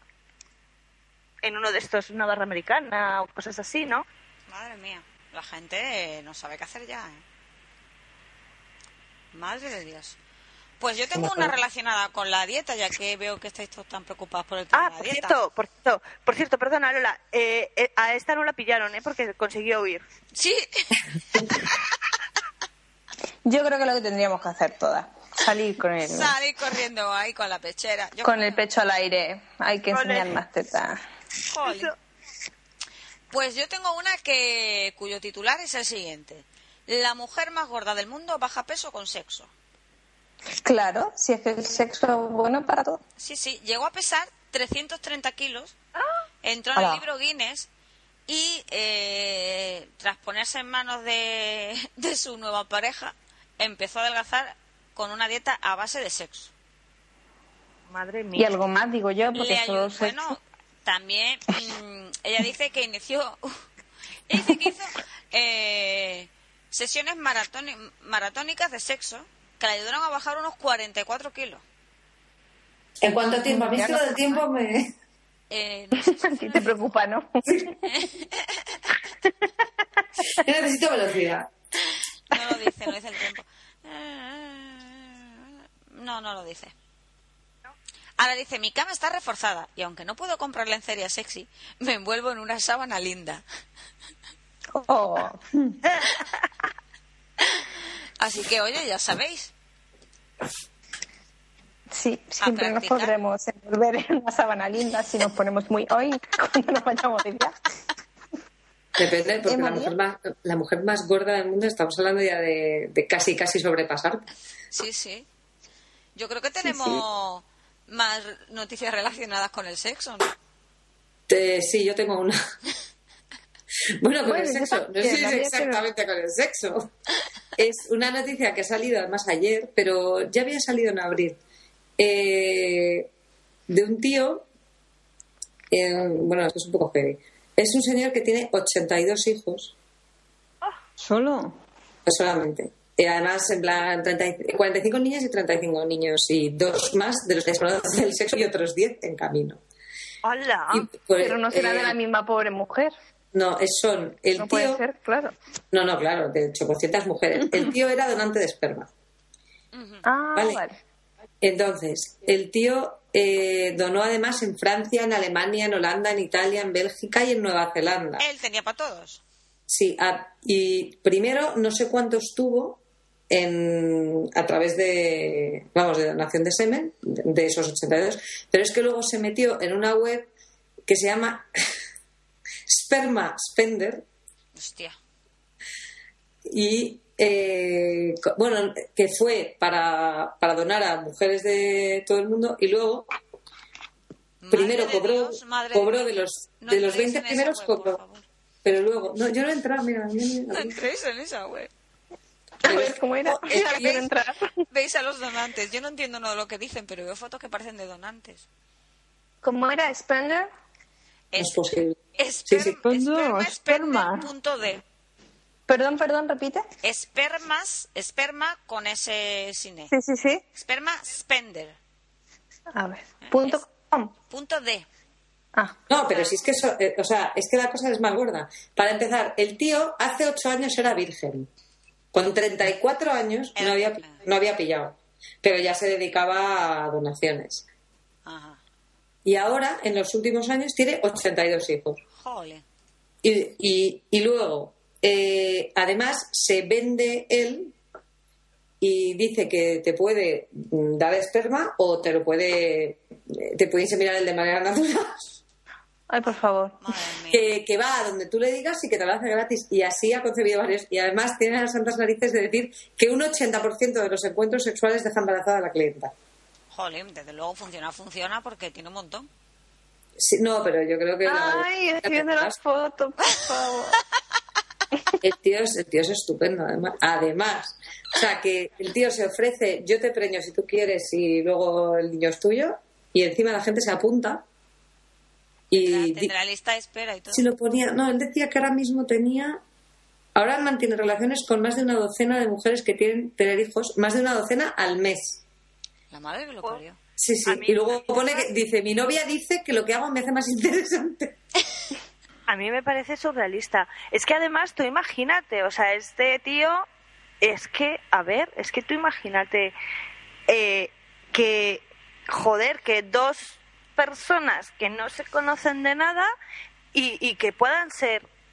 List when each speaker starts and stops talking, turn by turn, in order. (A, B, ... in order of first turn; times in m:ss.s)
0:01.4-0:04.0 A
0:04.5-0:07.2 B
0:09.3-0:10.2 B
0:10.8-0:15.4 B
0:11.1-0:11.5 C
0:14.7-0:20.0 A
0:20.3-0:21.0 B
0:23.4-0:26.3 D
0:26.0-0:28.6 B
0:28.2-0:31.0 D
0:29.9-0:30.3 A
0:31.5-0:31.9 B
0:31.6-0:31.9 A
0:33.3-0:39.5 B
0:40.6-0:43.0 D
0:43.2-0:45.7 B
0:46.4-0:47.7 B
0:46.8-0:47.0 D
0:48.3-0:56.5 B
0:57.9-0:58.5 A
0:58.4-1:00.4 D
0:59.3-1:03.4 B
1:04.3-1:11.6 B
1:13.0-1:14.9 C
1:13.5-1:14.4 D
1:15.5-1:16.7 B
1:16.0-1:17.7 D
1:17.5-1:17.7 C
1:17.8-1:18.8 B
1:20.3-1:21.5 C
1:22.3-1:26.7 B
1:28.2-1:33.4 B
1:34.7-1:35.4 D
1:38.2-1:39.5 B
1:41.9-1:47.6 D
1:42.4-1:43.1 B
1:49.0-1:54.3 C
1:49.4-1:50.0 D
1:54.7-1:55.2 B
1:56.1-2:00.3 B
1:56.6-1:57.0 D
2:01.3-2:02.4 C
2:04.0-2:06.9 C
2:04.2-2:05.8 D
2:07.6-2:11.4 C
2:12.0-2:13.1 C
2:13.7-2:14.4 C
2:15.7-2:19.7 C
2:21.0-2:21.6 E
2:22.0-2:29.6 C
2:30.2-2:30.9 A
2:30.7-2:31.9 C
2:31.2-2:32.9 D
2:33.3-2:34.8 C
2:34.4-2:35.3 D
2:35.7-2:38.9 C
2:39.7-2:40.0 B
2:40.0-2:40.8 D
2:40.4-2:40.6 C
2:41.4-2:48.2 C
2:48.2-2:49.2 B
2:49.7-3:00.3 C
3:00.9-3:01.5 C
3:02.7-3:04.0 C
3:04.5-3:05.0 B
3:06.5-3:13.1 C
3:14.4-3:18.2 B
3:14.5-3:18.0 C
3:18.6-3:20.8 C
3:20.5-3:21.7 B
3:22.6-3:24.5 D
3:22.6-3:23.8 C
3:23.5-3:24.0 B
3:24.7-3:28.4 B
3:29.4-3:30.5 D
3:31.3-3:31.6 B
3:31.4-3:32.0 C
3:32.2-3:34.8 B
3:32.5-3:32.8 C
3:32.8-3:34.3 E
3:35.7-3:36.6 D
3:36.8-3:39.9 B
3:39.9-3:40.4 D
3:40.6-3:41.8 B
3:42.7-3:44.1 D
3:43.2-3:43.6 B
3:44.3-3:44.8 B
3:45.9-3:51.5 C
3:46.1-3:46.4 B
3:52.1-3:57.6 C
3:53.6-3:54.2 B
3:58.2-3:58.6 B
3:59.2-4:02.0 C
4:02.2-4:02.6 B
4:03.2-4:07.7 C
4:08.8-4:15.3 C
4:16.1-4:16.8 D
4:16.8-4:17.5 B
4:17.3-4:26.1 C
4:26.7-4:29.3 B
4:30.2-4:32.5 C
4:31.2-4:34.0 D
4:35.2-4:44.4 C
4:45.7-4:46.3 C
4:45.7-4:47.4 B
4:47.3-4:49.6 C
4:50.3-4:55.4 C
4:56.1-4:57.0 B
4:57.2-5:01.3 C
4:57.4-4:58.5 A
5:02.5-5:06.8 A
5:07.4-5:09.7 A
5:10.5-5:16.3 A
5:16.9-5:18.2 A